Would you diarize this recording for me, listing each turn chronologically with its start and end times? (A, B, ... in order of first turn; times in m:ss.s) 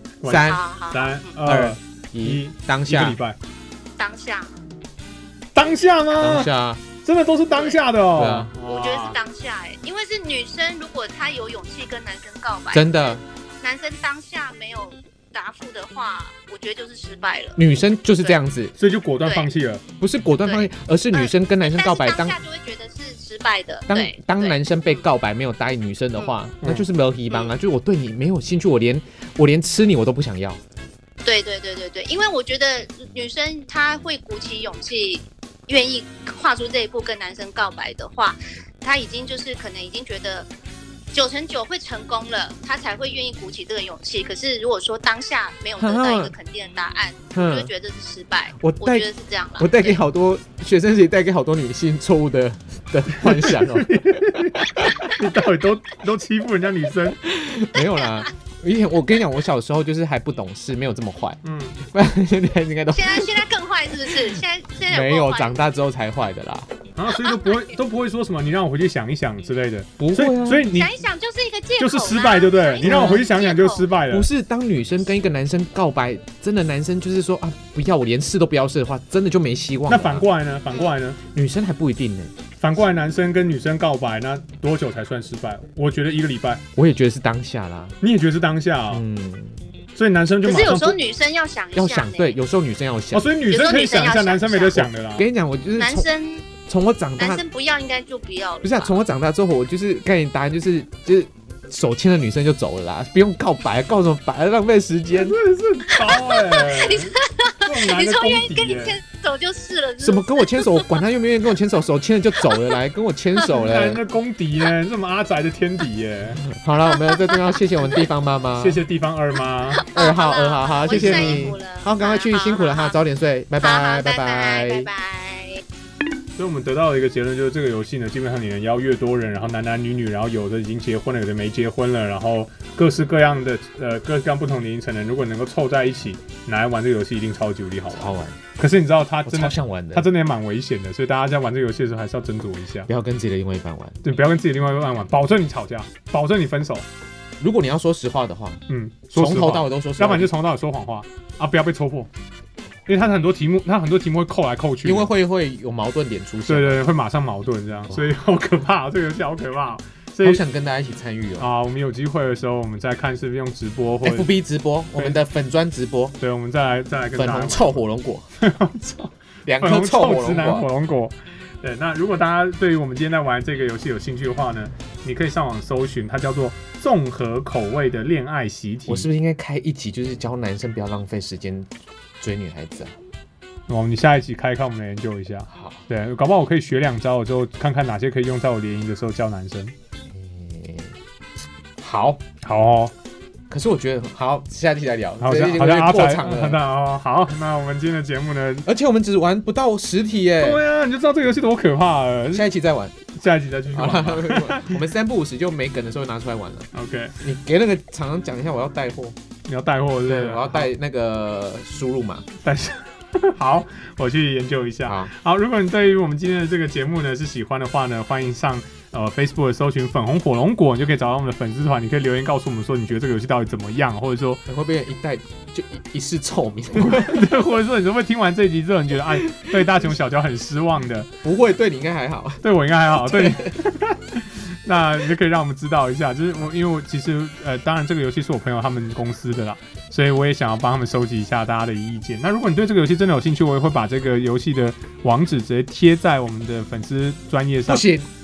0:00.2-0:03.4 A
0:00.3-0:00.6 B
0:00.3-0:01.3 C
0:01.4-0:03.2 B
0:04.0-0:04.5 C
0:05.5-0:06.5 A
0:06.2-0:06.8 B
0:07.0-0:09.2 A
0:07.5-0:07.8 C
0:08.1-0:08.5 B
0:08.6-0:17.6 C
0:12.7-0:13.2 B
0:17.6-0:18.7 B
0:18.8-0:19.8 A
0:19.2-0:19.5 C
0:20.0-0:22.4 B
0:20.4-0:25.0 C
0:23.9-0:30.6 B
0:26.6-0:26.9 A
0:31.2-0:40.5 C
0:41.1-0:50.0 C
0:45.8-0:46.3 B
0:47.3-0:47.7 B
0:48.6-0:49.0 B
0:49.6-0:54.9 B
0:53.2-0:57.2 A
0:57.2-1:03.4 B
0:57.7-0:58.3 C
1:01.4-1:01.8 A
1:02.9-1:05.6 C
1:04.9-1:06.7 B
1:07.0-1:11.0 A
1:07.3-1:07.5 C
1:10.0-1:10.7 B
1:10.7-1:13.9 C
1:11.8-1:14.3 A
1:12.8-1:13.2 B
1:14.1-1:20.3 B
1:19.9-1:21.2 A
1:21.3-1:22.3 B
1:22.6-1:26.6 A
1:26.7-1:28.0 B
1:28.0-1:29.0 A
1:28.9-1:29.6 B
1:29.9-1:31.0 A
1:30.4-1:32.4 C
1:31.7-1:33.3 B
1:33.1-1:35.2 A
1:33.5-1:34.9 C
1:35.0-1:36.1 B
1:35.8-1:36.5 C
1:36.6-1:37.4 B
1:37.2-1:39.0 C
1:38.6-1:45.4 B
1:45.1-1:49.0 A
1:45.9-1:51.0 C
1:50.0-1:54.0 B
1:52.4-1:52.7 C
1:53.6-1:56.4 A
1:56.4-1:58.8 B
1:57.0-1:57.4 C
1:58.6-1:59.8 A
1:59.8-2:03.0 C
1:59.9-2:04.9 B
2:00.9-2:01.5 A
2:03.6-2:05.6 C
2:06.4-2:22.9 A
2:17.9-2:18.4 B
2:19.2-2:20.1 B
2:22.9-2:24.0 B
2:24.0-2:26.9 A
2:27.4-2:28.6 B
2:28.7-2:32.1 A
2:29.1-2:30.3 B
2:32.9-2:35.1 A
2:34.8-2:36.8 B
2:36.5-2:40.4 A
2:40.2-2:41.5 B
2:41.4-2:44.3 A
2:44.0-2:46.2 B
2:46.2-2:47.8 A
2:47.1-2:48.3 B
2:48.4-2:59.1 A
2:49.4-2:50.7 B
2:58.8-3:02.9 B
3:03.7-3:09.7 A
3:05.5-3:05.8 B
3:10.1-3:11.0 B
3:11.8-3:12.2 B
3:12.4-3:12.9 A
3:13.5-3:16.6 B
3:15.2-3:18.7 A
3:18.6-3:20.6 B
3:20.4-3:22.5 A
3:22.3-3:22.9 B
3:23.2-3:24.8 A
3:23.7-3:29.2 B
3:26.7-3:27.1 A
3:29.5-3:30.7 A
3:30.0-3:32.3 B
3:32.4-3:44.4 A
3:34.8-3:35.1 B
3:44.5-3:47.3 B
3:46.8-3:51.1 A
3:49.3-3:49.6 B
3:51.2-3:53.6 B
3:52.4-4:07.9 A
4:07.6-4:08.1 B